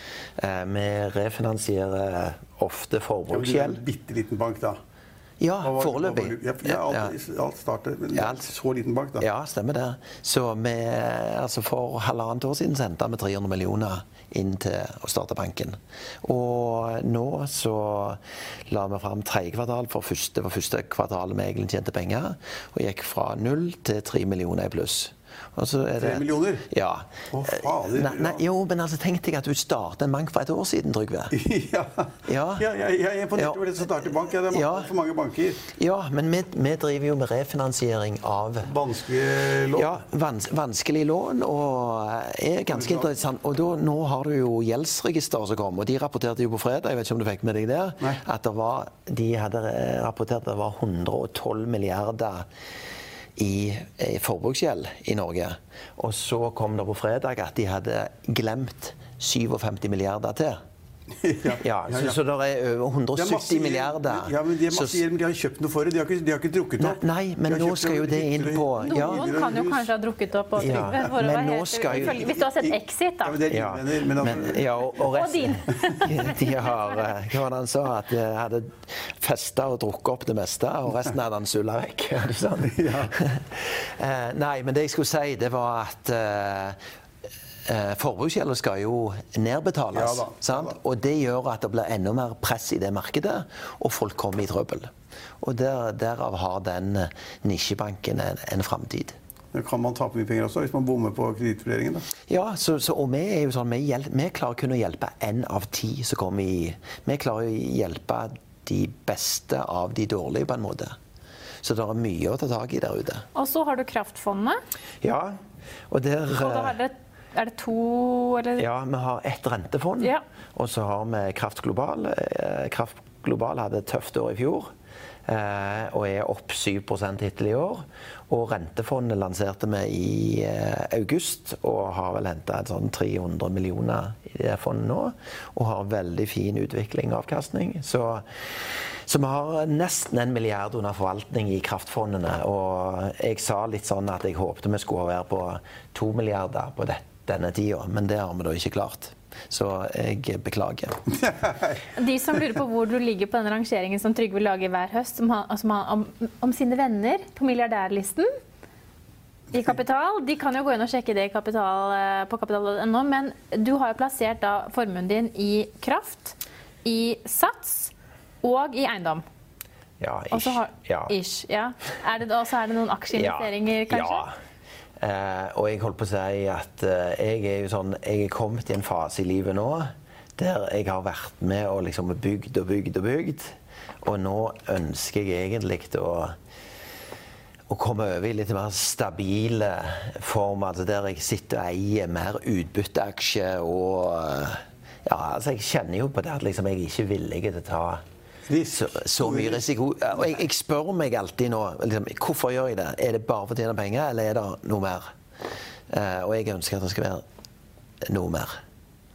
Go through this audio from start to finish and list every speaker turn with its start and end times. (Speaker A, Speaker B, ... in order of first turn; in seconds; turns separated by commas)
Speaker A: 0.4-3.8, Speaker B: 3.3-4.8, Speaker A: 5.4-7.1, Speaker B: 5.6-9.2, Speaker A: 8.1-8.5, Speaker A: 9.2-31.3, Speaker B: 26.0-26.6, Speaker B: 27.3-28.4, Speaker B: 31.3-35.6, Speaker A: 32.2-32.6, Speaker A: 33.3-34.9, Speaker A: 35.7-38.7, Speaker B: 38.6-39.9, Speaker A: 39.7-52.5, Speaker B: 42.7-43.1, Speaker A: 53.4-60.6, Speaker B: 61.2-62.1, Speaker A: 61.5-65.0, Speaker B: 63.1-69.9, Speaker A: 66.8-69.3, Speaker C: 68.8-73.4, Speaker A: 70.6-72.2, Speaker B: 70.6-70.9, Speaker B: 71.9-74.6, Speaker A: 73.5-86.8, Speaker C: 75.1-77.0, Speaker B: 82.6-83.1, Speaker A: 87.7-99.2, Speaker B: 89.9-90.7, Speaker B: 99.5-102.1, Speaker A: 102.2-111.0, Speaker A: 111.6-113.2, Speaker C: 113.3-114.6, Speaker A: 115.0-115.4, Speaker A: 115.9-116.7, Speaker C: 116.4-118.6, Speaker A: 118.6-124.7, Speaker A: 125.2-138.2, Speaker A: 139.1-151.0, Speaker B: 151.1-151.8, Speaker C: 151.9-158.3, Speaker C: 159.5-169.2, Speaker A: 170.0-171.1, Speaker C: 170.3-174.3, Speaker A: 173.1-174.3, Speaker A: 175.0-186.3, Speaker A: 187.7-198.0, Speaker B: 198.5-199.6, Speaker A: 198.7-205.1, Speaker A: 205.9-207.2, Speaker A: 208.0-208.6